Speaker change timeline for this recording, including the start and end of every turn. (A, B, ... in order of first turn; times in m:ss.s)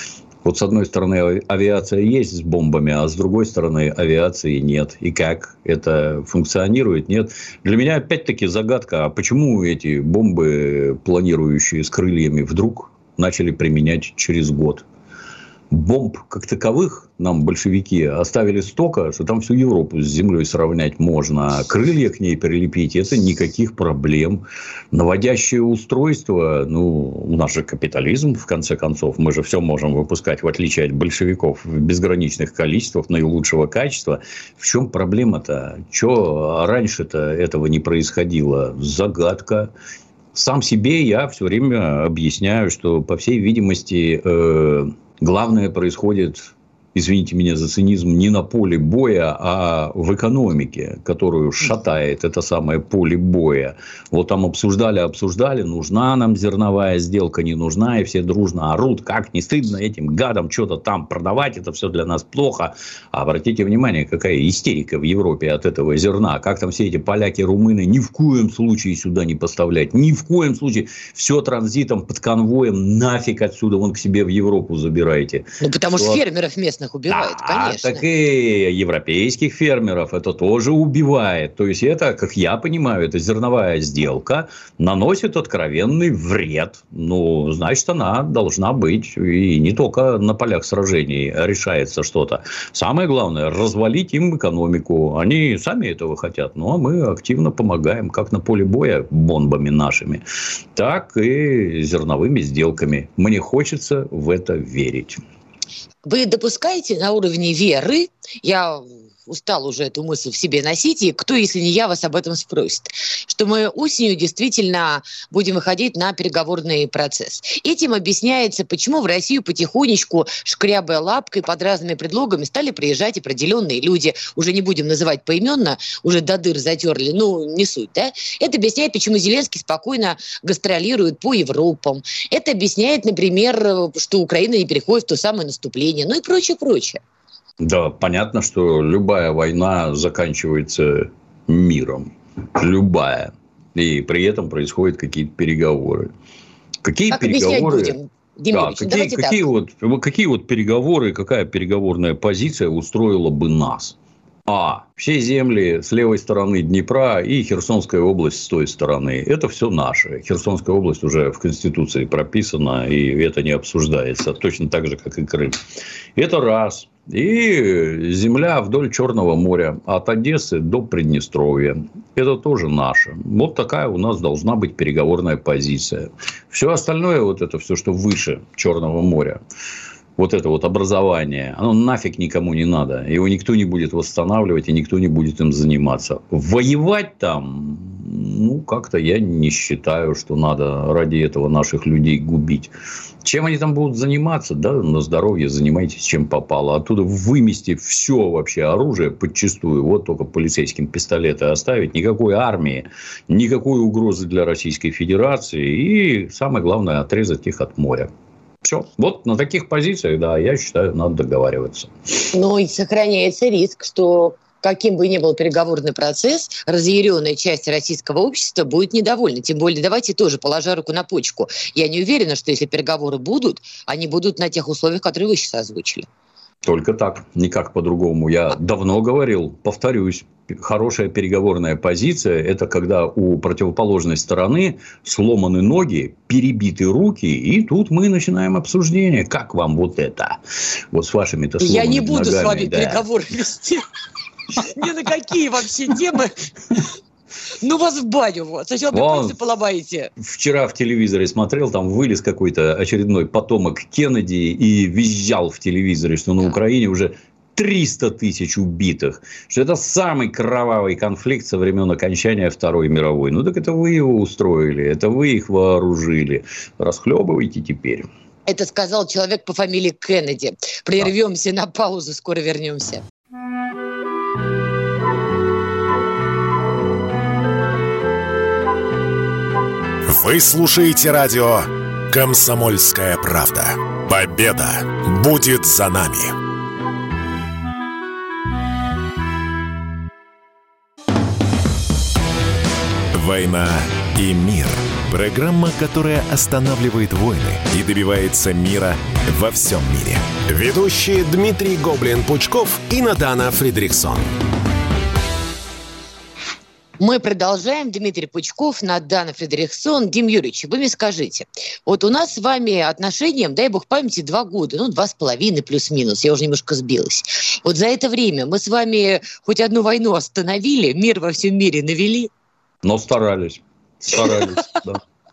0:00.4-0:14.8 A
0:15.7-0:39.7 A
0:40.3-1:16.2 A
1:15.6-1:18.0 B
1:17.1-1:40.2 A
1:40.7-1:45.2 A
1:46.0-2:17.0 B
2:17.6-2:26.1 A
2:26.8-2:28.0 A
2:27.1-2:29.4 B
2:28.5-2:34.0 A
2:34.5-2:45.6 A
2:46.2-2:59.4 A
3:00.2-3:12.7 A
3:13.2-3:28.1 A
3:28.6-3:31.9 A
3:32.3-3:46.0 B
3:46.6-4:00.4 A
4:00.9-4:03.0 A
4:01.6-4:03.9 B
4:04.6-4:06.5 B
4:07.6-4:10.1 B
4:08.9-4:09.4 A
4:10.2-4:28.1 A
4:28.5-4:33.0 B
4:40.1-4:46.4 C
4:53.1-5:04.3 C
5:07.0-5:22.3 B
5:22.8-5:25.0 A